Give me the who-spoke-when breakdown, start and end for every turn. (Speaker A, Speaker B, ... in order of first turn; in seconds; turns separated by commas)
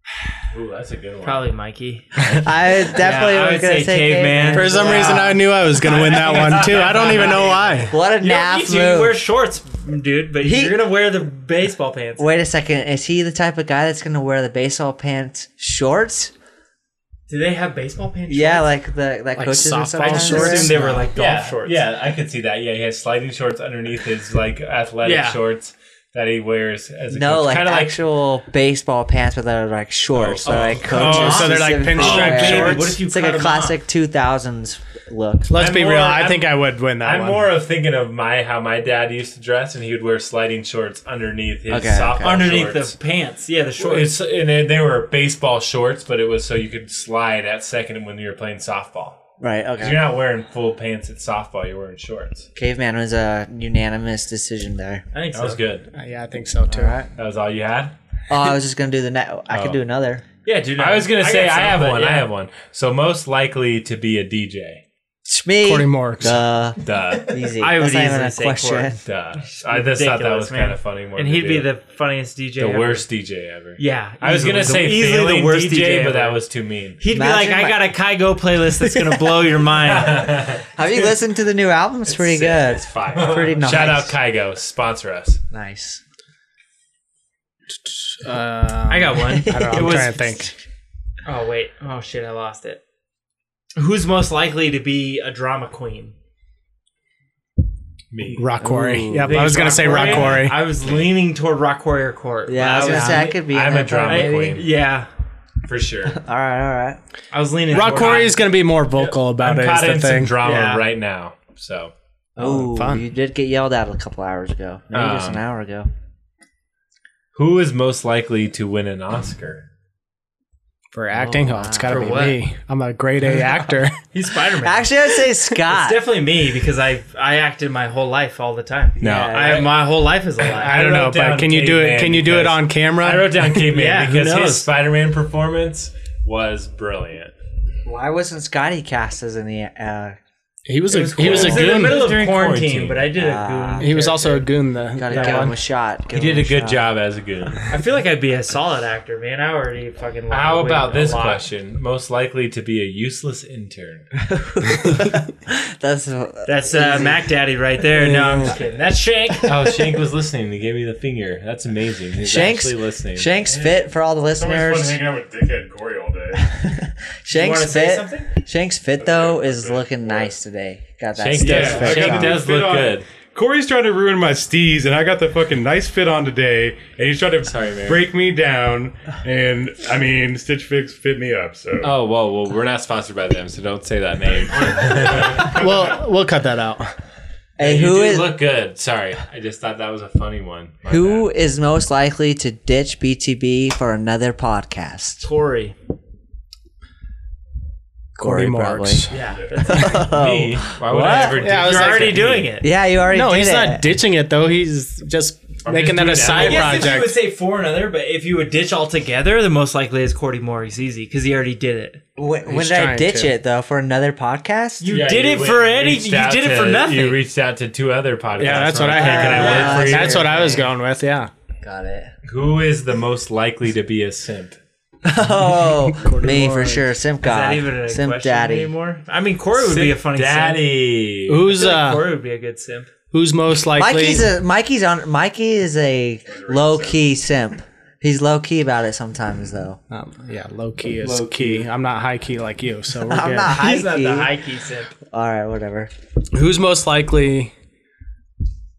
Speaker A: 0.5-1.4, Speaker B: 1.2-2.1, Speaker C: 2.2-5.4, Speaker B: 2.8-12.3, Speaker D: 4.5-7.9, Speaker A: 5.8-7.5, Speaker C: 7.9-9.2, Speaker C: 10.4-10.8, Speaker C: 12.2-16.3, Speaker B: 17.3-18.7, Speaker C: 18.3-21.0, Speaker D: 19.4-21.1, Speaker B: 20.0-21.8, Speaker A: 21.1-28.0, Speaker B: 25.0-25.4, Speaker C: 27.1-35.5, Speaker A: 30.1-31.3, Speaker B: 30.4-33.8, Speaker D: 30.9-33.0, Speaker D: 35.5-37.5, Speaker A: 35.5-42.9, Speaker C: 41.7-42.4, Speaker B: 42.2-44.1, Speaker A: 43.8-49.2, Speaker C: 49.4-50.0, Speaker A: 49.8-52.5, Speaker C: 52.5-55.0, Speaker B: 55.1-55.6, Speaker A: 55.3-55.9, Speaker D: 55.9-57.0, Speaker C: 56.7-57.1, Speaker A: 57.2-57.9, Speaker C: 58.3-60.2, Speaker A: 59.5-59.8, Speaker B: 60.4-62.3, Speaker A: 60.8-64.8, Speaker C: 65.2-69.0, Speaker D: 65.6-66.4, Speaker A: 66.8-67.4, Speaker B: 67.6-73.0, Speaker A: 69.0-71.7, Speaker A: 72.6-77.0, Speaker B: 73.8-76.4, Speaker B: 77.0-80.3, Speaker C: 77.1-77.9, Speaker C: 78.8-79.4, Speaker A: 79.8-80.7, Speaker C: 80.7-84.1, Speaker A: 82.1-85.4, Speaker C: 85.5-86.0, Speaker D: 87.8-90.5, Speaker B: 88.9-90.5, Speaker C: 89.3-90.1, Speaker B: 91.2-92.8, Speaker B: 93.8-96.1, Speaker A: 98.1-98.5, Speaker D: 98.3-100.6, Speaker C: 98.6-100.3, Speaker A: 99.1-100.4, Speaker B: 99.2-103.4, Speaker C: 102.5-104.6, Speaker A: 102.8-104.6, Speaker B: 104.0-105.1, Speaker A: 105.7-106.2, Speaker C: 106.1-107.0, Speaker B: 107.3-108.4, Speaker D: 107.7-110.3, Speaker A: 107.7-108.3, Speaker A: 108.9-111.9, Speaker B: 110.4-110.8, Speaker D: 112.4-113.0, Speaker C: 112.4-115.9, Speaker A: 114.9-115.4, Speaker A: 117.3-119.6, Speaker D: 120.9-124.0, Speaker C: 121.2-122.3, Speaker B: 121.9-122.4, Speaker B: 124.0-124.9, Speaker C: 124.6-126.1, Speaker B: 125.7-130.8, Speaker C: 129.0-129.7, Speaker A: 129.0-129.8, Speaker A: 130.4-137.3, Speaker D: 130.6-133.6, Speaker B: 133.7-134.7, Speaker C: 137.8-140.2, Speaker D: 140.7-142.0, Speaker B: 140.9-144.5, Speaker A: 141.1-143.1, Speaker C: 141.2-141.6, Speaker C: 143.1-143.9, Speaker D: 143.8-145.6, Speaker C: 144.9-146.9, Speaker B: 145.1-145.5, Speaker A: 146.1-147.7, Speaker B: 147.7-151.4, Speaker A: 150.3-154.1, Speaker C: 154.2-157.3, Speaker B: 156.4-159.5, Speaker D: 158.0-158.5, Speaker C: 158.1-158.5, Speaker A: 159.4-163.3, Speaker C: 162.2-165.0, Speaker E: 163.4-166.6, Speaker C: 166.3-172.4, Speaker B: 167.3-168.3, Speaker E: 169.0-170.3, Speaker A: 171.2-173.1, Speaker E: 171.4-181.9, Speaker A: 177.4-178.1, Speaker A: 181.8-185.6, Speaker E: 184.5-185.9, Speaker D: 185.4-186.9, Speaker C: 187.6-188.4, Speaker A: 187.6-191.3, Speaker C: 190.8-195.2, Speaker B: 195.2-195.7, Speaker C: 198.2-199.1, Speaker D: 198.2-199.1, Speaker B: 199.1-200.2, Speaker E: 199.2-199.8, Speaker C: 199.6-201.5, Speaker A: 199.9-202.5, Speaker D: 201.4-202.2, Speaker B: 201.5-202.7, Speaker C: 202.6-203.8, Speaker D: 203.1-207.2, Speaker A: 205.6-206.9, Speaker B: 206.3-212.0, Speaker C: 212.2-214.9, Speaker D: 212.4-213.3, Speaker B: 214.8-217.2, Speaker A: 214.9-220.4, Speaker D: 218.4-221.3, Speaker B: 218.4-220.1, Speaker C: 218.9-220.7, Speaker C: 221.6-222.1, Speaker A: 222.2-224.6, Speaker C: 225.0-228.7, Speaker D: 225.5-226.9, Speaker B: 227.2-230.6, Speaker A: 229.6-231.4, Speaker D: 231.3-232.1, Speaker B: 231.4-232.9, Speaker D: 233.1-234.3, Speaker C: 233.7-239.8, Speaker E: 236.2-237.0, Speaker D: 239.9-243.6, Speaker A: 241.0-241.7, Speaker C: 243.0-244.3, Speaker B: 243.5-244.9, Speaker C: 245.1-245.9, Speaker D: 246.3-247.5